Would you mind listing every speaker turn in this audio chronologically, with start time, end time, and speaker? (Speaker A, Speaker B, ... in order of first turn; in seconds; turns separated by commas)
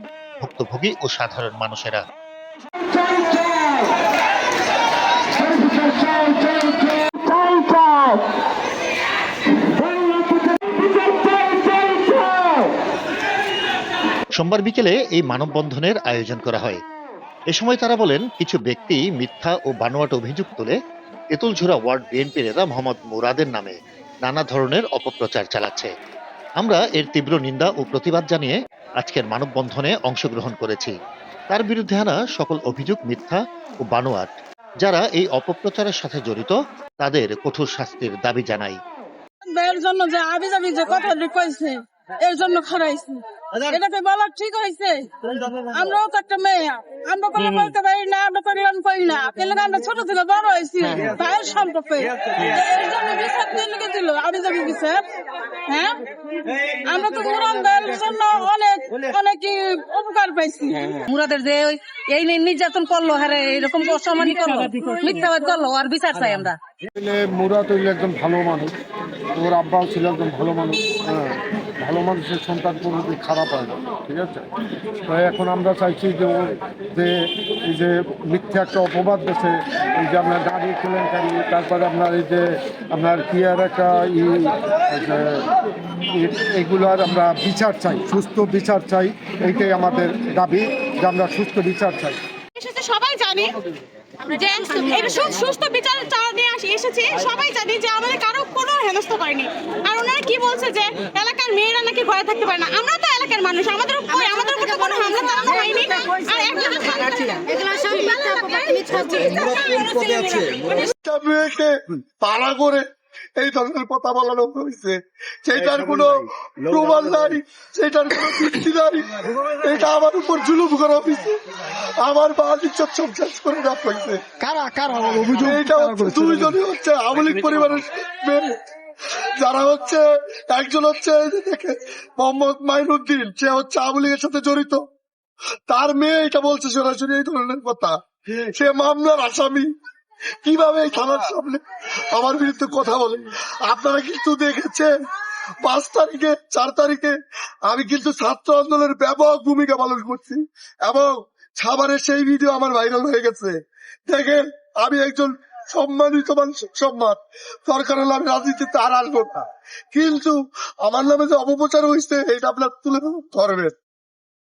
Speaker A: 0.4-2.0, Speaker A: 14.3-16.8, Speaker A: 17.5-20.8, Speaker A: 21.3-25.9, Speaker A: 26.6-30.9, Speaker A: 31.5-38.8, Speaker B: 39.5-55.1, Speaker B: 55.6-56.0, Speaker B: 56.7-61.0, Speaker C: 60.9-66.6, Speaker B: 64.4-64.8, Speaker D: 66.9-68.7, Speaker D: 69.3-74.5, Speaker D: 75.0-85.5, Speaker D: 86.0-92.2, Speaker E: 92.5-93.5, Speaker E: 94.3-110.9, Speaker F: 110.9-112.8, Speaker F: 113.4-124.2, Speaker D: 124.5-125.5, Speaker F: 125.4-128.5, Speaker F: 129.4-134.8, Speaker F: 135.7-139.7, Speaker F: 140.4-144.9, Speaker F: 145.6-153.6, Speaker F: 154.1-163.7